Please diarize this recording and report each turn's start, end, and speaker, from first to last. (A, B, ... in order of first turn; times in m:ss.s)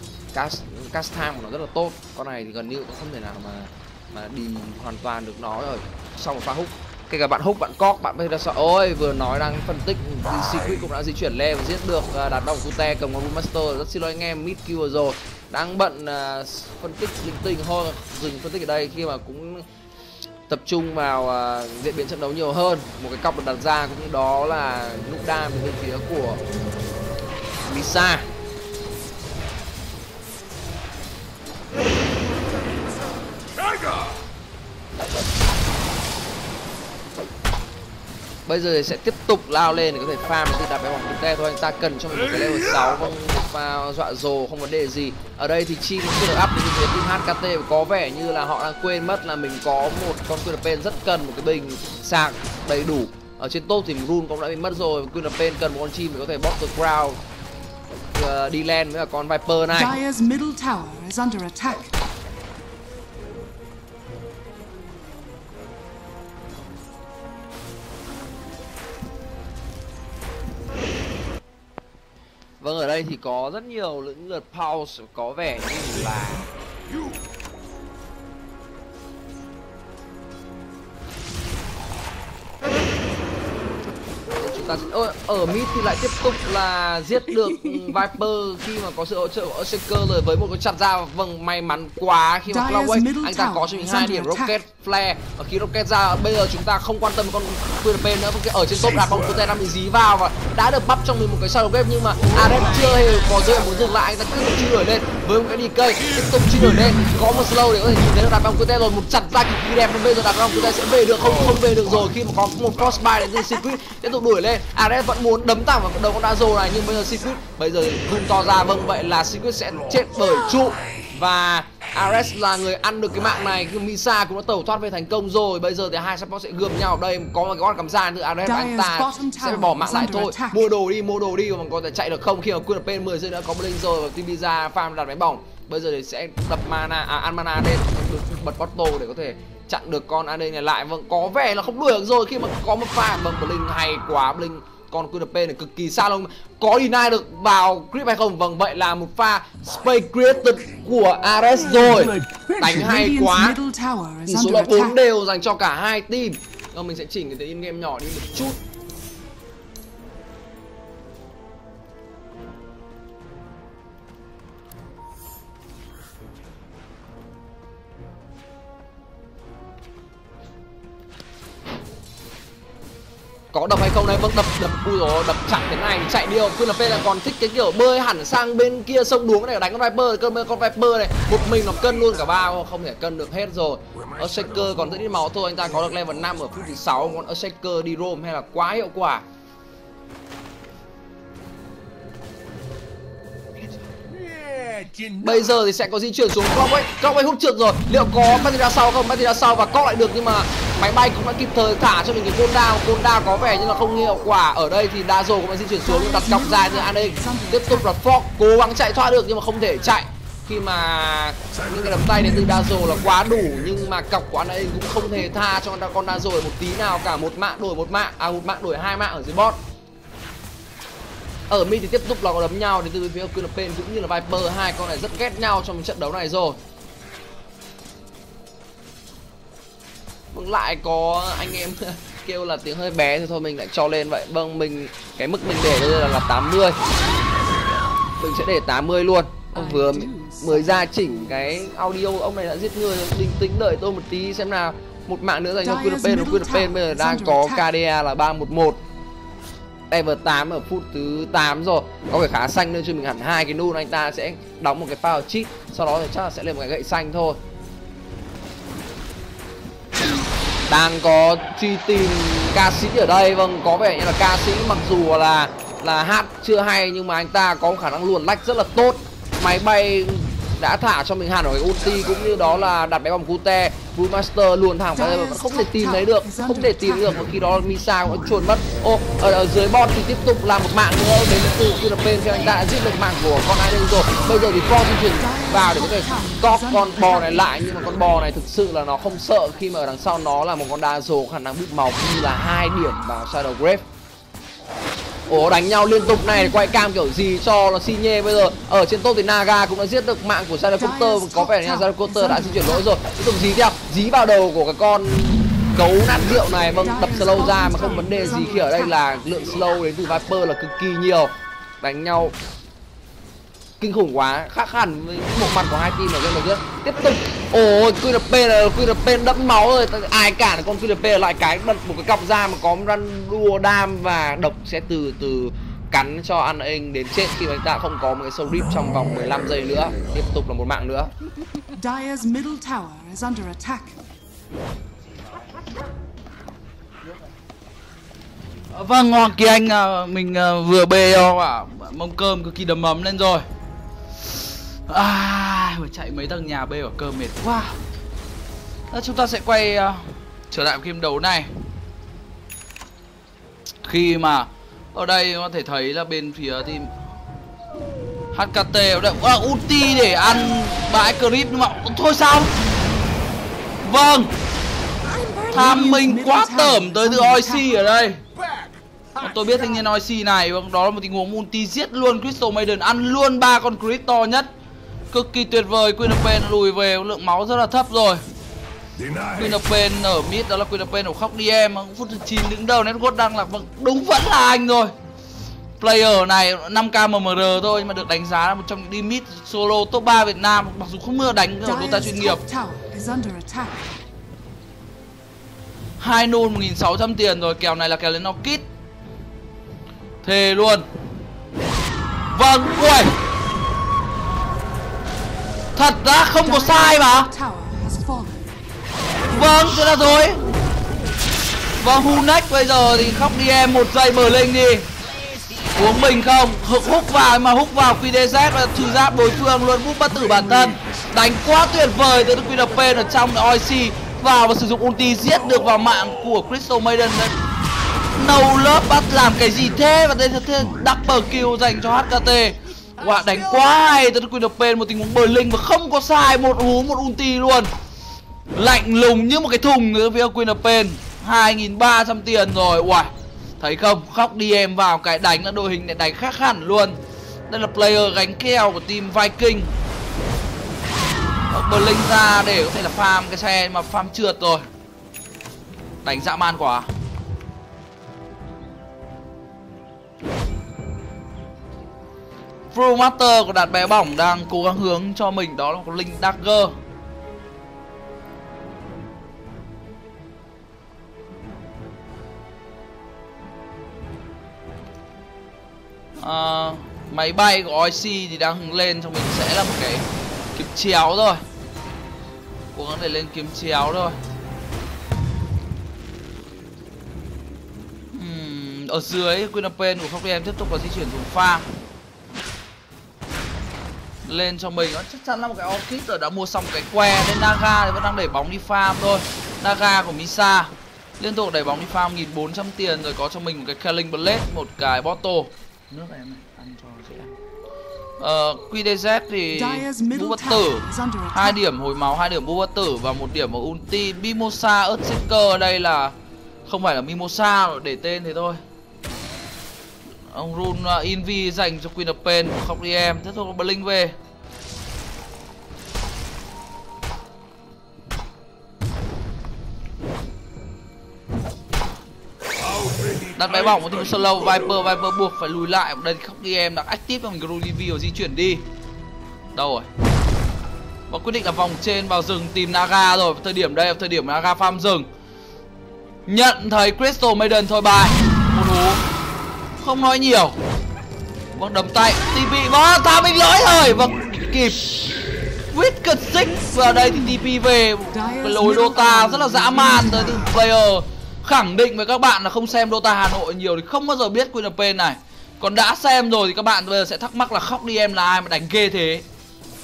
0:00.3-0:19.7 A
0:20.5-0:26.4 A
0:27.6-0:28.3 A
0:38.4-0:57.2 A
0:58.1-1:00.0 A
0:59.7-1:01.9 B
1:12.6-1:16.5 A
1:24.4-2:33.6 A
1:32.5-1:34.5 B
2:08.4-2:10.6 B
2:31.8-2:35.0 B
2:34.3-2:38.6 A
2:53.5-3:09.2 A
3:15.0-3:39.6 A
3:25.8-3:27.9 B
3:41.5-3:46.6 A
3:50.3-3:56.8 A
3:58.2-4:08.8 A
3:59.5-4:01.1 B
4:05.6-4:07.7 B
4:09.9-4:17.4 A
4:20.7-4:53.8 A
4:34.9-4:37.2 B
4:45.2-4:47.4 B
4:55.3-5:12.4 A
5:00.8-5:02.9 B
5:06.8-5:09.0 B
5:13.8-5:31.1 A
5:31.7-5:34.0 B
5:38.7-5:43.4 C
5:44.2-5:47.8 C
5:48.9-5:51.5 C
5:53.8-5:56.9 C
5:58.3-6:02.6 C
6:03.8-6:04.3 C
6:05.1-6:07.7 B
6:05.5-6:08.2 C
6:09.2-6:14.5 C
6:15.1-6:18.2 C
6:19.2-6:24.9 C
6:25.8-6:32.4 C
6:31.6-6:33.9 B
6:36.0-6:38.6 C
6:40.2-6:40.9 C
6:42.3-6:43.2 C
6:45.7-6:47.3 C
6:46.4-6:48.5 B
6:49.3-6:50.5 C
6:51.8-6:54.9 C
6:55.7-7:07.4 C
7:08.1-7:17.7 C
7:18.5-7:27.0 C
7:27.5-7:29.7 C
7:31.5-7:34.6 C
7:36.0-7:36.9 C
7:42.7-7:46.7 C
7:56.2-8:01.4 C
8:02.7-8:04.2 C
8:08.1-8:11.7 C
8:14.2-8:27.4 C
8:28.2-8:38.6 C
8:29.5-8:31.6 B
8:40.3-8:44.2 C
8:53.2-8:58.6 C
8:59.6-8:59.9 C
9:01.1-9:05.1 C
9:06.2-9:09.0 C
9:09.8-9:10.6 C
9:11.5-9:29.2 C
9:18.1-9:20.5 B